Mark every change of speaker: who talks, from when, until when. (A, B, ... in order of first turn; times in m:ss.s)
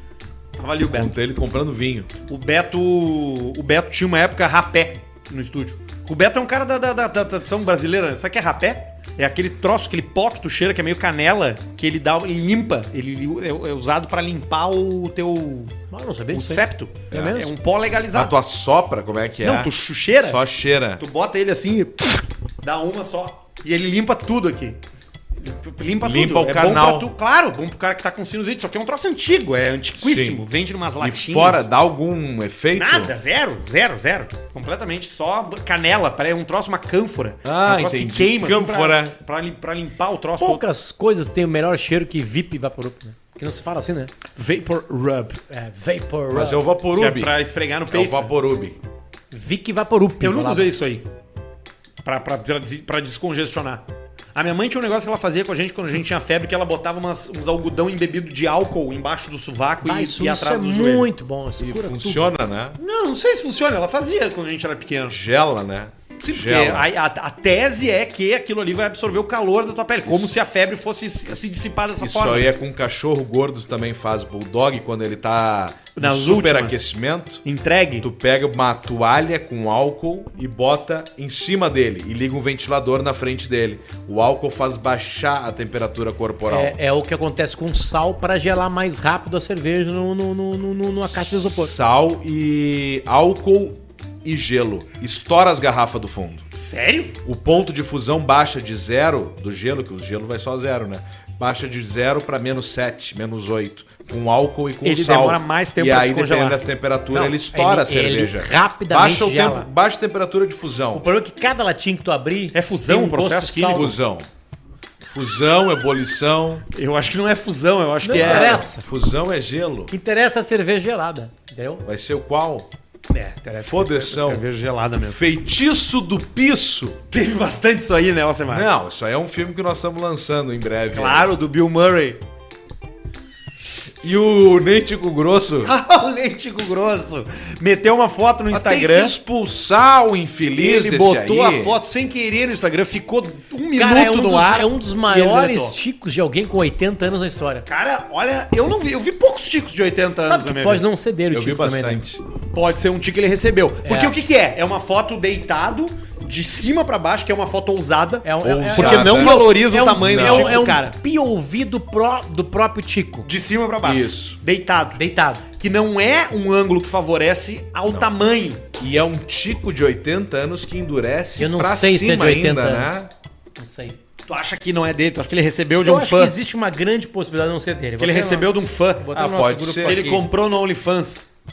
0:00.6-0:01.1 A
0:00.9-0:02.1 B
0:02.3-0:15.8 A
0:15.9-0:17.5 C
0:16.3-0:18.3 A
0:17.1-0:17.4 B
0:18.1-0:21.0 B
0:19.4-0:20.4 A
0:21.0-0:24.8 A
0:25.4-0:31.7 A
0:26.0-0:27.1 B
0:30.0-0:30.4 B
0:31.0-0:33.2 B
0:32.8-0:40.6 A
0:37.4-0:39.2 B
0:40.4-0:44.1 C
0:44.4-0:45.4 A
0:45.5-0:46.6 C
0:46.3-0:47.3 B
0:47.0-0:48.3 A
0:47.9-0:48.8 B
0:49.3-0:50.7 C
0:50.2-0:51.0 A
0:52.0-0:53.8 A
0:54.3-1:01.1 A
0:59.8-1:02.3 C
1:01.6-1:02.8 B
1:02.8-1:05.2 A
1:05.1-1:06.9 B
1:06.2-1:12.5 A
1:10.1-1:10.3 B
1:12.0-1:17.4 B
1:16.0-1:16.9 A
1:17.4-1:18.1 A
1:18.0-1:26.8 B
1:26.5-1:31.7 C
1:31.0-1:36.4 B
1:36.5-1:37.2 A
1:37.2-1:51.0 B
1:44.8-1:46.6 A
1:47.1-1:49.7 C
1:50.9-1:53.9 C
1:52.5-1:54.0 A
1:53.7-1:54.3 B
1:55.0-1:56.6 B
1:56.7-1:58.7 A
1:58.0-1:58.8 C
1:58.1-1:59.9 B
1:59.9-2:01.9 C
2:01.9-2:02.7 B
2:03.1-2:05.3 A
2:03.6-2:04.4 B
2:05.0-2:07.0 B
2:07.1-2:08.7 A
2:08.5-2:11.3 B
2:10.9-2:12.2 A
2:14.0-2:15.7 B
2:15.6-2:19.2 A
2:18.5-2:21.8 B
2:20.6-2:25.8 A
2:23.7-2:27.6 C
2:27.7-2:30.8 A
2:30.2-2:32.0 C
2:31.3-2:32.2 B
2:32.5-2:40.9 A
2:33.8-2:34.2 C
2:38.2-2:43.3 C
2:38.4-2:40.6 B
2:43.2-2:45.0 A
2:43.8-2:44.4 B
2:45.0-2:45.4 C
2:45.6-2:48.6 A
2:48.8-2:53.1 B
2:51.4-2:54.0 C
2:54.3-2:56.3 A
2:55.8-3:00.2 C
2:58.0-2:59.1 A
2:59.1-3:00.1 B
2:59.8-3:01.3 A